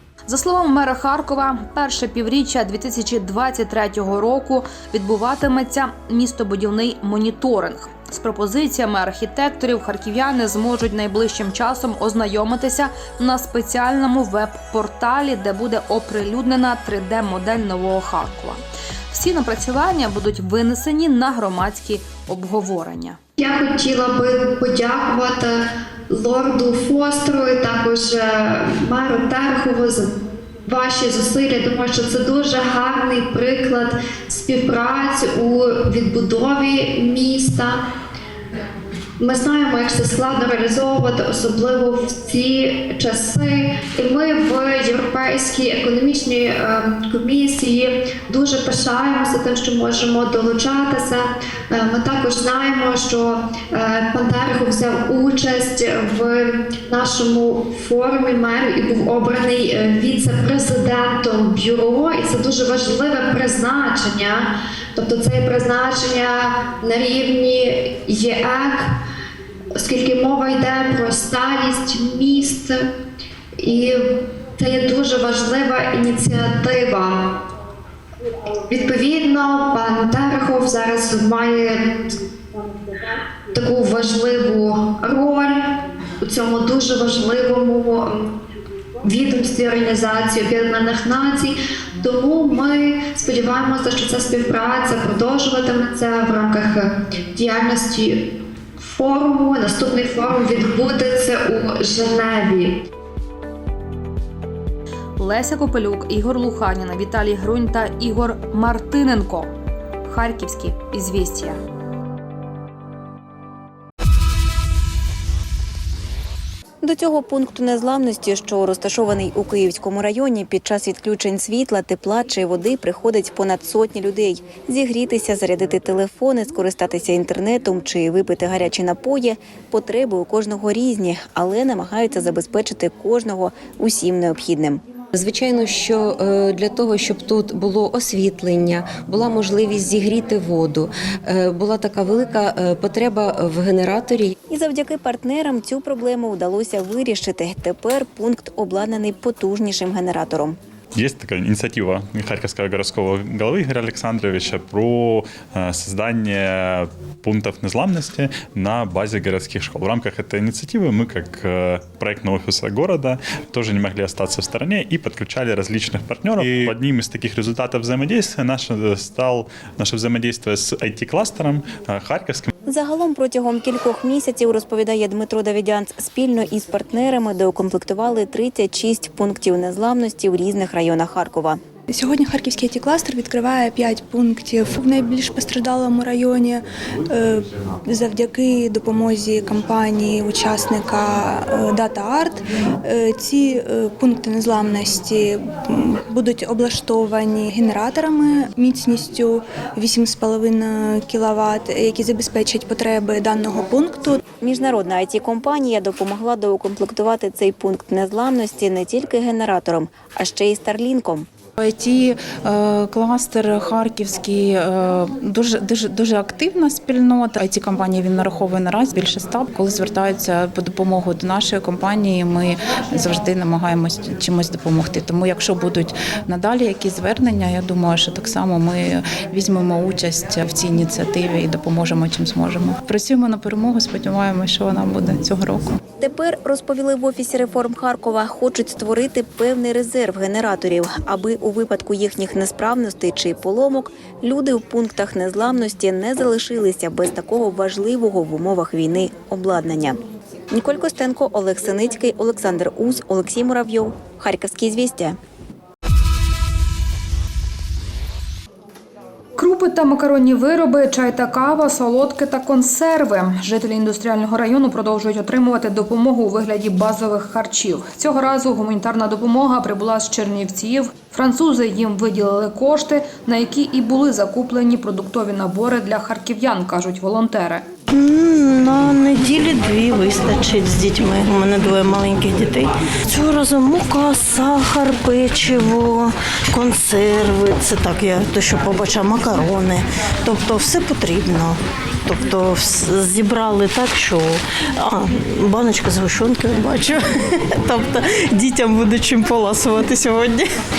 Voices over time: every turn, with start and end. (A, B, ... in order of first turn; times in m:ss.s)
0:00.3-0:18.6 A
0:19.1-0:23.2 A
0:23.4-0:37.8 B
0:39.2-1:09.0 B
1:09.8-1:12.9 B
1:13.6-1:17.2 B
1:18.7-1:22.2 B
1:23.5-1:28.4 B
1:29.0-1:38.2 B
1:38.8-1:42.8 B
1:45.2-1:49.5 A
1:50.0-1:51.6 A
1:56.8-2:14.8 C
2:15.1-2:24.3 D
2:24.5-2:30.6 C
2:30.9-2:52.5 E
2:52.7-3:01.6 C
3:01.9-3:24.2 F
3:24.3-3:31.3 C
3:31.6-3:55.7 G
3:56.0-4:15.2 C
4:19.4-4:37.6 A
4:37.9-4:57.1 H
4:57.6-5:00.5 H